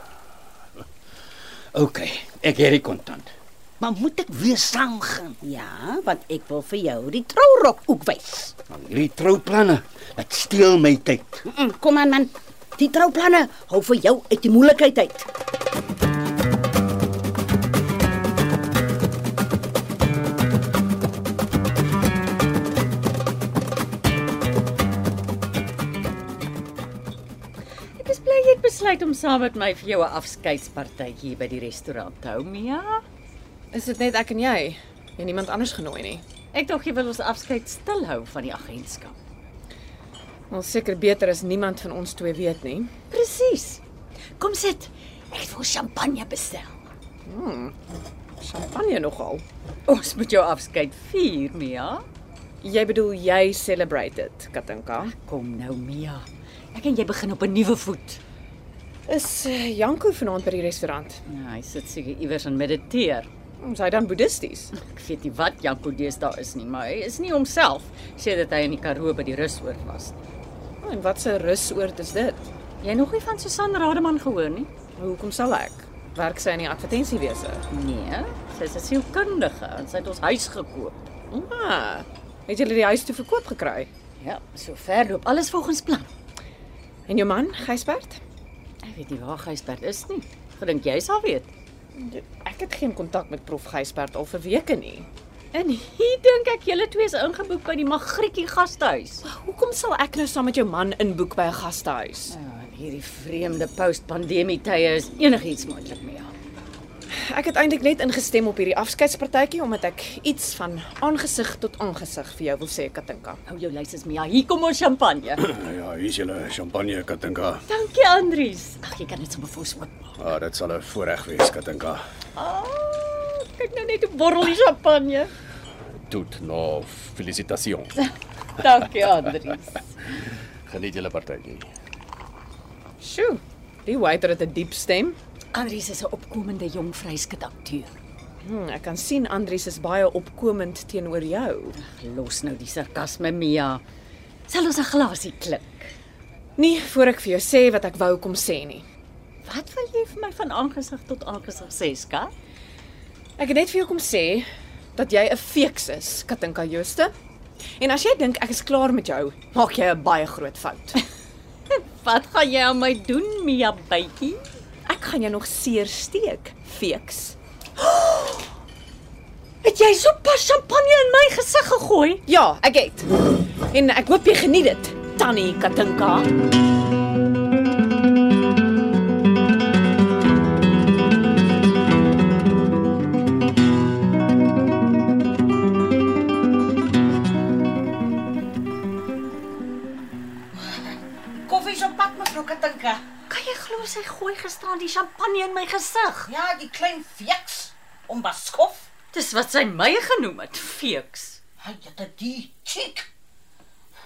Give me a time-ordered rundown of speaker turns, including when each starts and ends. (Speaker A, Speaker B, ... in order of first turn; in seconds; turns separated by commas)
Speaker A: 1.7-5.4, Speaker B: 5.4-8.5, Speaker A: 8.7-11.4, Speaker B: 11.4-15.2, Speaker C: 28.0-33.0, Speaker D: 33.7-36.2, Speaker C: 36.5-39.1, Speaker D: 40.5-42.9, Speaker C: 43.1-43.8, Speaker C: 44.4-46.7, Speaker D: 47.2-47.7, Speaker D: 48.4-49.4, Speaker C: 49.9-52.0, Speaker D: 52.6-55.1, Speaker C: 55.1-58.2, Speaker D: 59.1-61.2, Speaker C: 61.2-63.3, Speaker D: 63.6-64.7, Speaker C: 64.7-70.2, Speaker D: 70.8-72.4, Speaker C: 72.8-74.7, Speaker D: 75.0-77.6, Speaker C: 77.7-81.1, Speaker D: 81.3-83.9, Speaker C: 84.2-86.1, Speaker D: 87.1-88.2, Speaker C: 88.8-91.5, Speaker D: 92.0-95.1, Speaker C: 95.5-99.2, Speaker D: 99.2-102.3, Speaker C: 102.3-106.3, Speaker D: 107.1-113.4, Speaker C: 113.5-115.5, Speaker E: 115.5-117.6, Speaker C: 117.7-120.0, Speaker E: 120.2-122.0, Speaker C: 122.3-125.3, Speaker E: 126.0-127.9, Speaker C: 128.0-129.8, Speaker E: 130.7-131.7, Speaker D: 133.0-135.2, Speaker C: 135.5-137.9, Speaker D: 138.4-141.7, Speaker C: 141.8-143.8, Speaker C: 144.5-145.9, Speaker D: 146.6-148.8, Speaker C: 149.4-152.3, Speaker D: 153.4-157.1, Speaker D: 157.8-160.9, Speaker C: 161.7-164.4, Speaker D: 164.8-167.4, Speaker C: 167.8-168.4, Speaker C: 169.6-172.2, Speaker D: 172.3-173.1, Speaker D: 173.7-176.3, Speaker B: 191.4-193.0, Speaker C: 193.3-196.3, Speaker B: 196.3-198.9, Speaker C: 199.1-201.4, Speaker B: 201.6-203.1